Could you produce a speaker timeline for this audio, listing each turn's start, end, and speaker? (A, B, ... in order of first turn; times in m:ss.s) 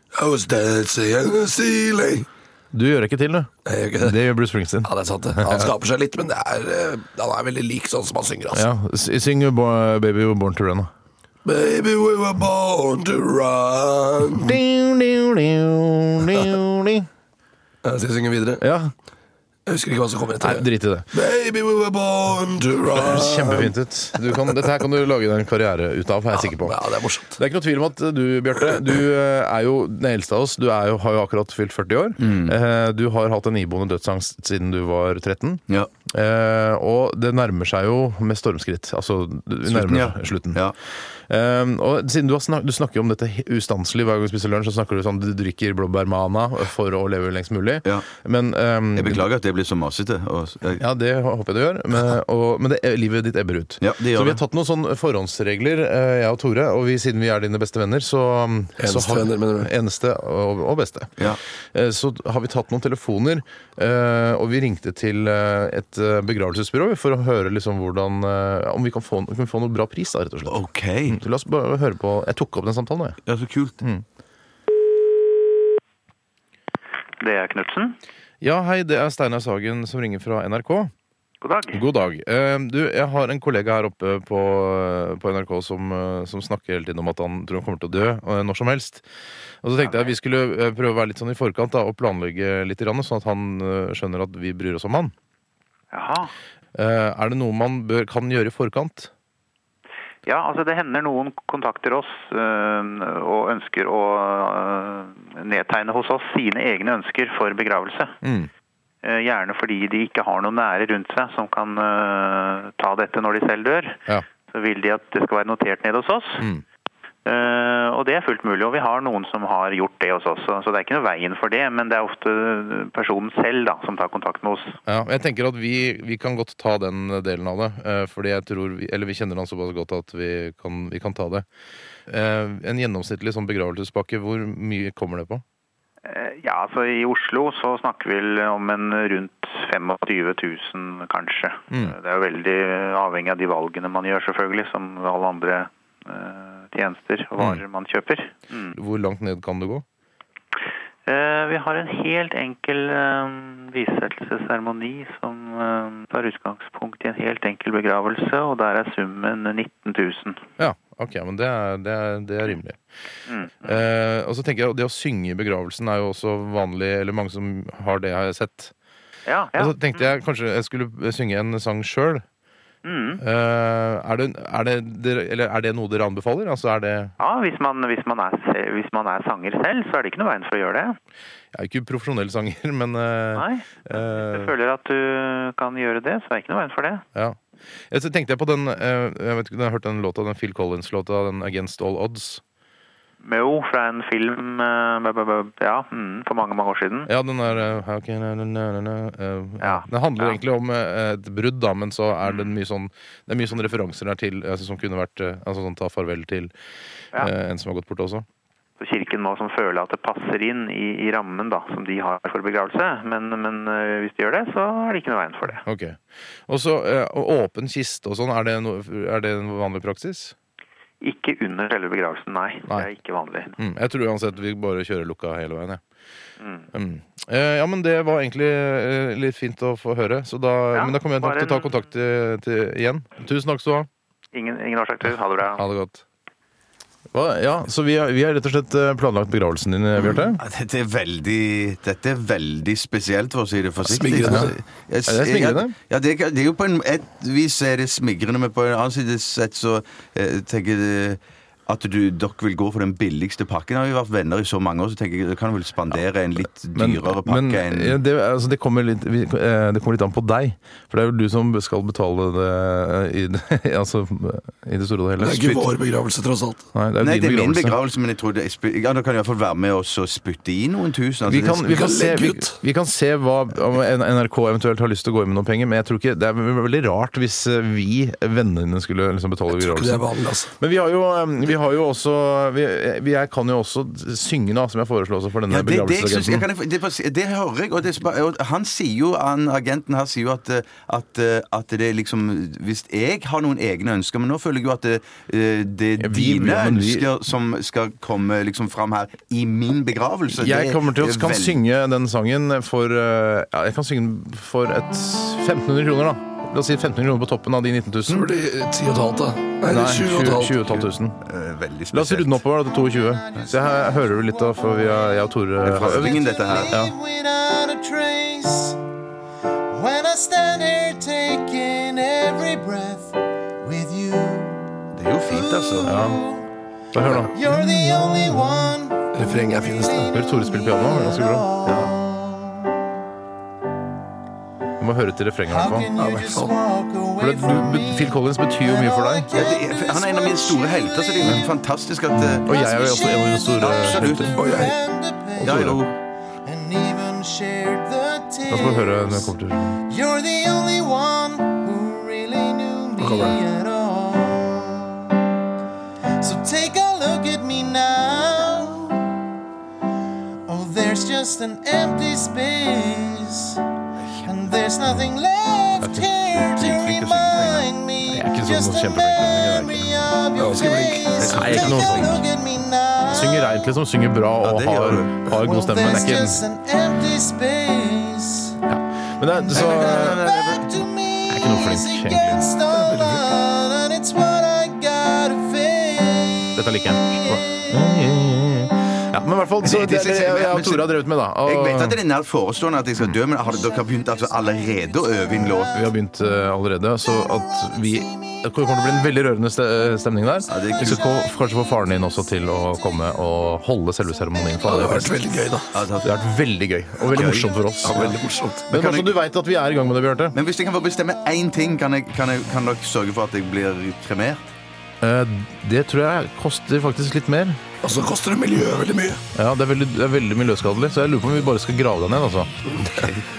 0:00.1-0:02.3 A
0:02.7-0:05.7 B
0:03.6-0:04.2 A
0:04.8-0:08.7 A
0:08.5-0:10.9 B
0:11.4-0:14.6 A
0:14.4-0:17.1 B
0:17.8-0:18.6 A
0:18.6-0:18.9 B
0:19.6-0:23.7 A
0:20.4-0:21.1 B
0:22.9-0:26.8 B
0:26.3-0:27.4 A
0:27.4-0:40.6 B
0:32.2-0:32.6 C
0:39.6-0:40.8 C
0:41.3-0:49.2 B
0:49.0-0:50.8 C
0:50.8-1:10.6 B
0:53.8-0:54.4 C
0:58.8-0:59.7 A
1:10.4-1:11.2 C
1:11.1-1:13.2 B
1:13.2-1:13.8 C
1:17.2-1:17.9 D
1:18.4-1:20.9 B
1:21.4-1:21.8 D
1:21.7-1:29.0 B
1:29.6-1:35.1 B
1:35.9-1:36.3 D
1:36.7-1:39.1 B
1:40.2-1:48.1 D
1:48.2-1:48.5 B
1:49.0-1:56.4 D
1:57.2-2:04.8 D
2:04.9-2:11.4 B
2:12.1-2:15.4 B
2:16.0-2:28.7 D
2:28.7-2:29.8 B
2:31.1-2:40.4 D
2:40.6-2:42.8 B
2:43.3-2:43.8 D
2:43.6-2:48.7 B
2:49.2-2:50.1 D
2:49.6-2:52.2 B
2:52.8-2:53.2 D
2:53.2-2:57.1 B
2:57.2-3:00.9 D
3:01.5-3:04.5 B
3:03.3-3:07.0 D
3:07.9-3:12.4 B
3:13.2-3:17.1 D
3:17.1-3:26.5 B
3:19.6-3:20.4 D
3:27.2-3:28.2 B
3:28.8-3:35.6 D
3:35.6-3:40.3 B
3:41.0-3:43.6 D
3:43.6-3:45.8 B
3:46.4-3:46.7 D
3:46.7-3:53.9 B
3:50.7-3:51.8 D
3:54.3-3:55.6 D
3:55.5-3:56.0 B
3:57.1-4:00.4 B
4:00.0-4:18.0 C
4:03.8-4:04.5 A
4:04.2-4:04.5 B
4:05.1-4:05.8 B
4:16.7-4:25.7 B
4:25.2-4:26.6 A
4:26.7-4:27.8 B
4:27.0-4:31.6 C
4:31.2-4:40.0 B
4:31.6-4:32.6 A
4:39.5-4:40.5 A
4:40.6-4:46.5 B
4:45.5-5:01.6 C
4:56.0-4:57.1 B
5:00.3-5:08.3 B
5:08.0-5:10.6 A
5:09.7-5:11.2 B
5:10.6-5:12.4 C
5:11.9-5:16.9 B
5:12.7-5:15.3 E
5:15.6-5:16.8 C
5:15.9-5:18.8 E
5:19.7-5:26.5 E
5:24.9-5:26.0 C
5:25.8-5:26.2 B
5:26.9-5:28.5 B
5:27.2-5:32.9 E
5:29.1-5:30.2 A
5:30.1-5:31.5 B
5:31.6-5:31.9 C
5:34.8-5:35.9 B
5:35.5-5:41.5 E
5:36.0-5:36.6 A
5:37.2-5:39.3 B
5:39.3-5:42.5 C
5:42.4-5:44.4 B
5:42.4-5:45.6 E
5:43.6-5:44.5 C
5:44.3-5:44.7 A
5:45.4-5:46.0 C
5:45.4-5:45.8 B
5:46.4-5:55.2 E
5:48.5-5:49.8 B
5:53.0-5:53.4 A
5:56.2-5:59.2 E
6:00.5-6:03.6 E
6:04.2-6:04.4 C
6:04.2-6:13.7 E
6:05.8-6:06.7 B
6:06.3-6:07.7 C
6:08.1-6:10.2 B
6:10.4-6:12.2 A
6:11.2-6:11.8 C
6:11.3-6:12.2 B
6:13.0-6:16.4 B
6:14.4-6:15.2 C
6:15.4-6:18.6 E
6:18.6-6:20.2 B
6:19.3-6:27.8 E
6:19.5-6:20.8 C
6:21.3-6:22.5 B
6:22.7-6:23.3 A
6:26.6-6:32.0 B
6:29.6-6:30.9 C
6:31.4-6:35.8 C
6:33.5-6:36.1 E
6:35.6-6:45.2 B
6:37.0-6:39.1 E
6:40.4-6:45.2 E
6:40.5-6:41.0 C
6:44.6-6:45.8 A
6:45.7-6:46.1 C
6:46.0-6:50.3 B
6:47.1-6:47.4 C
6:47.1-6:48.6 A
6:47.4-6:47.8 E
6:48.7-6:49.1 C
6:50.3-6:54.5 C
6:55.0-6:57.6 B
6:57.8-6:59.2 A
6:59.3-7:02.5 B
7:02.8-7:03.2 C